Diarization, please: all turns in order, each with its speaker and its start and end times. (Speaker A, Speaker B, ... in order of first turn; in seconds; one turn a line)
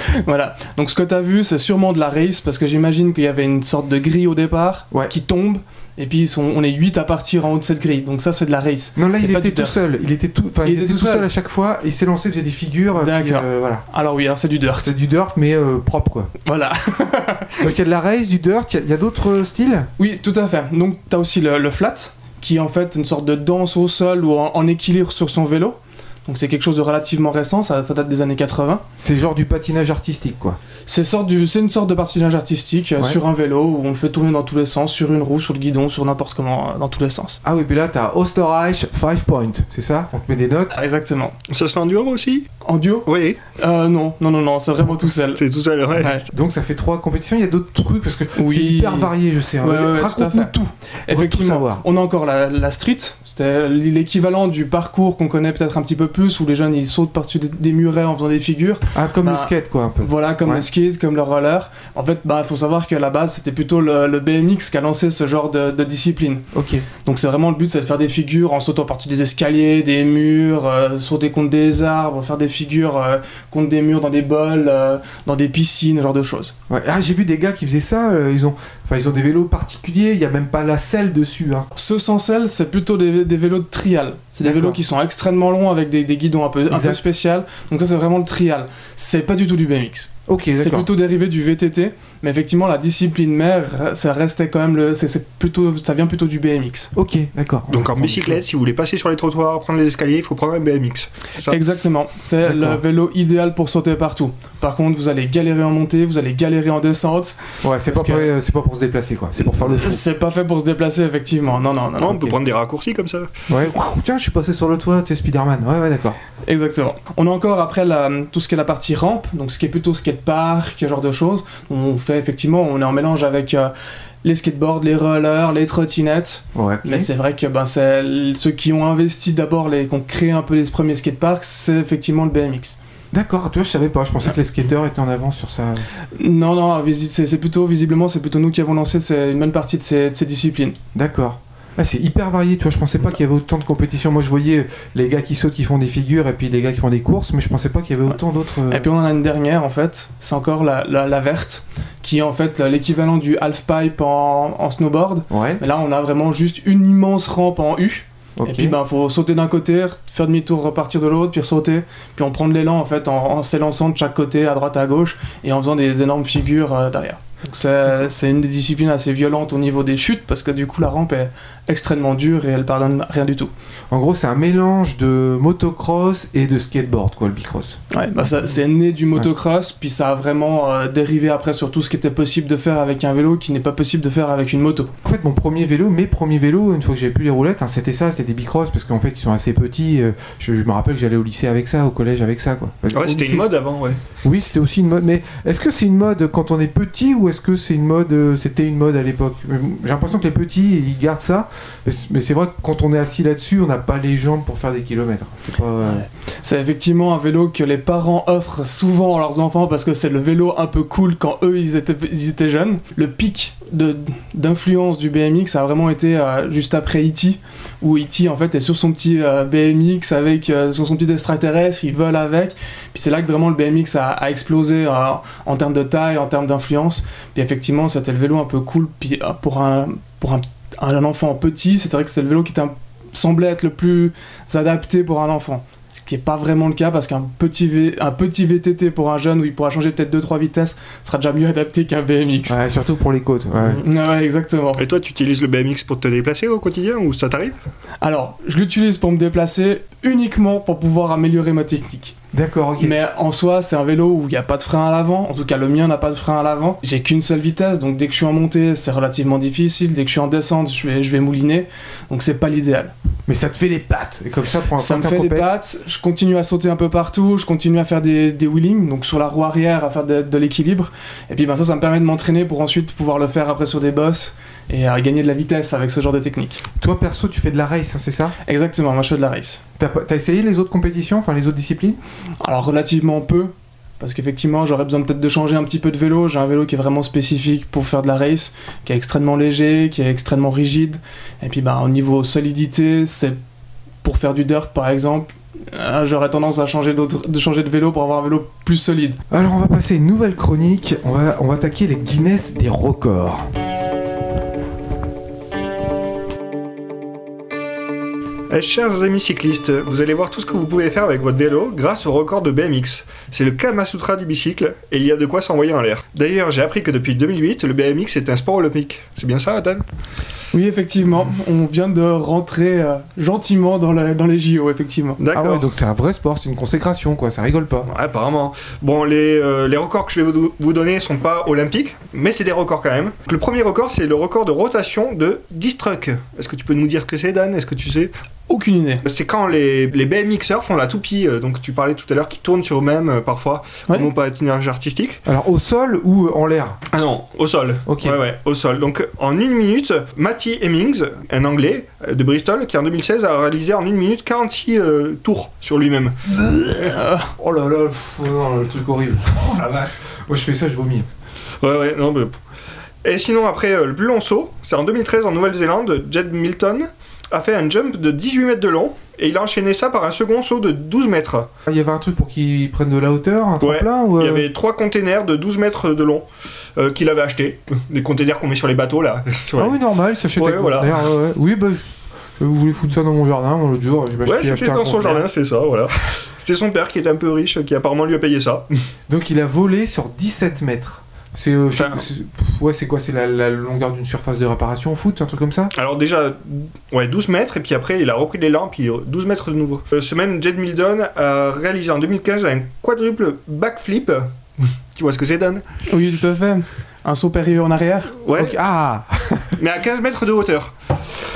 Speaker A: 0.2-9.8
Speaker B: 9.0-13.8
Speaker A: 10.6-11.3
Speaker A: 13.0-14.9
Speaker B: 14.8-16.3
Speaker A: 16.5-17.7
Speaker B: 17.6-19.9
Speaker A: 20.0-28.8
Speaker B: 29.0-30.6
Speaker A: 30.9-37.4
Speaker B: 37.4-40.7
Speaker A: 40.7-41.4
Speaker C: 41.5-42.5
Speaker A: 42.6-45.4
Speaker C: 43.1-43.4
Speaker C: 45.4-46.2
Speaker A: 46.0-46.2
Speaker B: 46.3-51.8
Speaker A: 48.4-66.5
Speaker B: 58.9-60.6
Speaker B: 66.5-66.9
Speaker A: 67.0-76.5
Speaker B: 76.7-81.7
Speaker A: 81.8-96.9
Speaker B: 84.4-84.8
Speaker B: 86.7-87.1
Speaker B: 90.3-90.9
Speaker B: 96.9-98.4
Speaker C: 97.7-101.6
Speaker A: 101.5-108.3
Speaker B: 102.4-102.8
Speaker B: 107.6-110.0
Speaker A: 109.4-112.3
Speaker C: 112.0-113.3
Speaker B: 113.5-116.2
Speaker A: 116.5-132.8
Speaker B: 126.5-127.1
Speaker B: 133.1-135.9
Speaker A: 136.2-140.8
Speaker B: 140.9-148.9
Speaker A: 148.7-173.5
Speaker B: 155.3-155.6
Speaker B: 158.4-158.8
Speaker B: 173.9-177.8
Speaker A: 177.9-184.9
Speaker B: 185.1-193.5
Speaker C: 192.9-194.0
Speaker B: 194.2-206.1
Speaker A: 205.8-242.6
Speaker B: 242.5-243.8
Speaker A: 243.6-244.8
Speaker C: 244.8-247.6
Speaker A: 248.0-252.2
Speaker B: 252.3-253.0
Speaker A: 252.8-262.9
Speaker B: 263.3-265.6
Speaker A: 264.8-276.6
Speaker B: 276.8-278.4
Speaker A: 278.5-279.6
Speaker B: 279.8-282.0
Speaker A: 282.4-293.4
Speaker A: 294.0-299.2
Speaker B: 299.3-303.5
Speaker C: 308.5-319.8
Speaker A: 320.5-325.2
Speaker C: 325.2-325.7
Speaker B: 325.3-327.9
Speaker C: 327.9-338.1
Speaker A: 338.5-339.0
Speaker C: 339.1-345.2
Speaker B: 345.3-346.8
Speaker C: 346.9-356.2
Speaker B: 347.9-348.2
Speaker A: 356.8-357.3
Speaker B: 357.4-359.8
Speaker C: 359.6-359.9
Speaker B: 360.3-361.1
Speaker C: 361.6-362.4
Speaker C: 363.0-371.5
Speaker B: 371.7-374.5
Speaker C: 373.6-376.3
Speaker C: 376.8-379.8
Speaker B: 379.6-385.3
Speaker C: 380.4-381.1
Speaker C: 384.3-388.7
Speaker B: 389.1-395.7
Speaker C: 391.8-392.0
Speaker C: 395.7-405.7
Speaker A: 405.9-408.1
Speaker C: 408.2-408.6
Speaker B: 408.4-409.6
Speaker C: 409.6-410.7